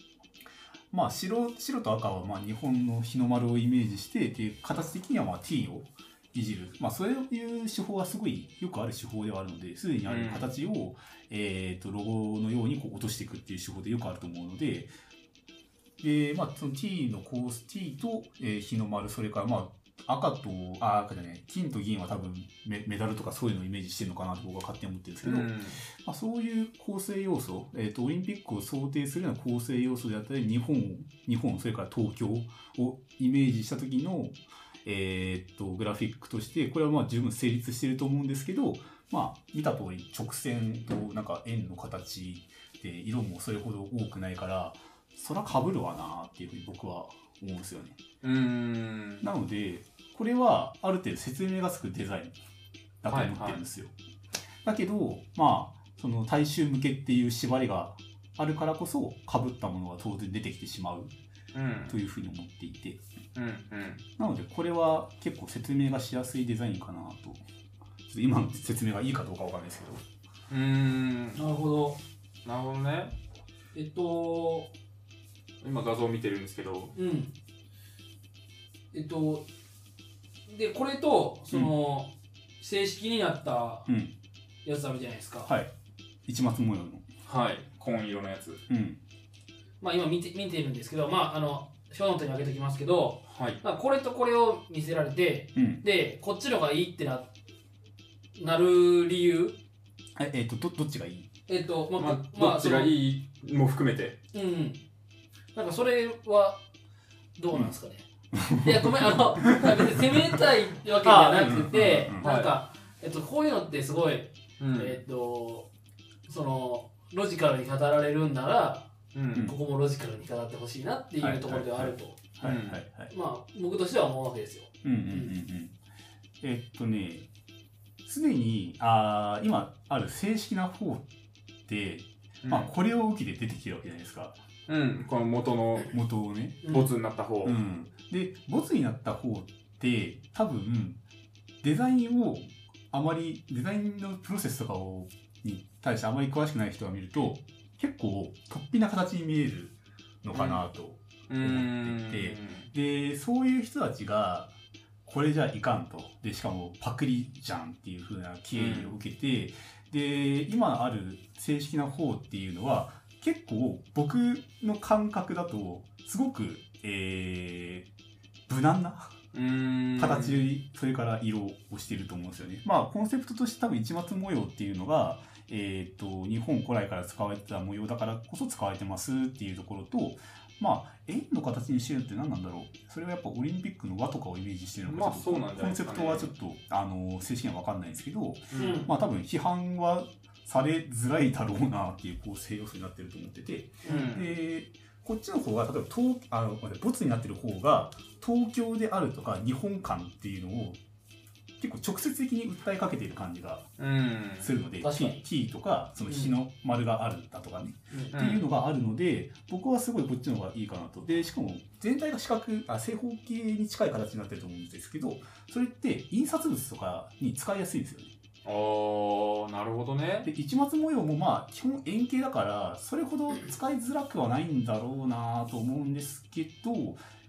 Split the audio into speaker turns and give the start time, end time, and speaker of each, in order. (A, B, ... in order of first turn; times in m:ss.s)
0:00.9-0:14.9 A
0:10.0-0:10.5 B
0:16.0-0:48.0 A
0:25.2-0:25.8 B
0:48.2-0:49.3 B
0:49.2-0:52.4 A
0:53.0-0:53.9 A
0:53.1-0:53.6 B
0:54.6-1:01.1 A
1:01.5-1:02.0 B
1:01.9-1:03.0 A
1:03.3-1:04.0 B
1:04.2-1:07.4 A
1:08.1-1:10.0 A
1:10.5-1:11.4 B
1:11.4-1:12.0 C
1:12.4-1:13.2 B
1:13.7-1:14.7 C
1:15.6-1:16.9 B
1:16.9-1:17.3 C
1:18.9-1:19.5 C
1:20.5-1:23.9 C
1:23.9-1:24.1 A
1:24.6-1:25.5 C
1:25.4-1:25.7 A
1:26.2-1:27.0 A
1:27.2-1:28.6 B
1:28.7-1:29.0 A
1:29.8-1:37.3 C
1:33.3-1:33.6 B
1:35.6-1:35.8 A
1:38.4-1:39.6 C
1:40.2-1:41.3 A
1:41.5-1:42.9 C
1:42.0-1:44.2 B
1:44.3-1:44.8 C
1:45.5-1:46.6 C
1:47.4-1:55.7 C
1:48.3-1:50.4 A
1:51.0-1:52.3 A
1:52.2-1:52.6 B
1:54.6-1:55.0 B
1:56.3-2:02.2 C
1:59.1-1:59.5 B
2:01.2-2:03.1 A
2:02.4-2:02.8 B
2:03.1-2:05.3 C
2:04.8-2:05.8 A
2:06.4-2:07.2 A
2:08.0-2:11.0 A
2:11.7-2:14.4 A
2:12.4-2:12.7 B
2:14.7-2:15.9 B
2:15.9-2:16.8 A
2:16.6-2:16.9 C
2:16.7-2:17.6 B
2:17.4-2:21.0 A
2:21.6-2:34.5 A
2:30.3-2:30.6 B
2:31.3-2:32.7 B
2:35.0-2:47.9 A
2:38.5-2:38.9 B
2:48.5-2:49.2 A
2:49.3-2:50.4 B
2:50.0-3:20.8 A
3:04.8-3:06.3 B
3:08.5-3:08.8 B
3:08.6-3:08.9 C
3:13.8-3:14.1 C
3:13.8-3:14.4 B
3:21.6-3:23.7 A
3:23.8-3:24.5 B
3:24.4-3:38.1 A
3:24.8-3:25.2 C
3:26.1-3:26.3 C
3:27.9-3:28.2 C
3:28.1-3:28.4 B
3:38.4-3:40.3 B
3:40.2-3:47.0 A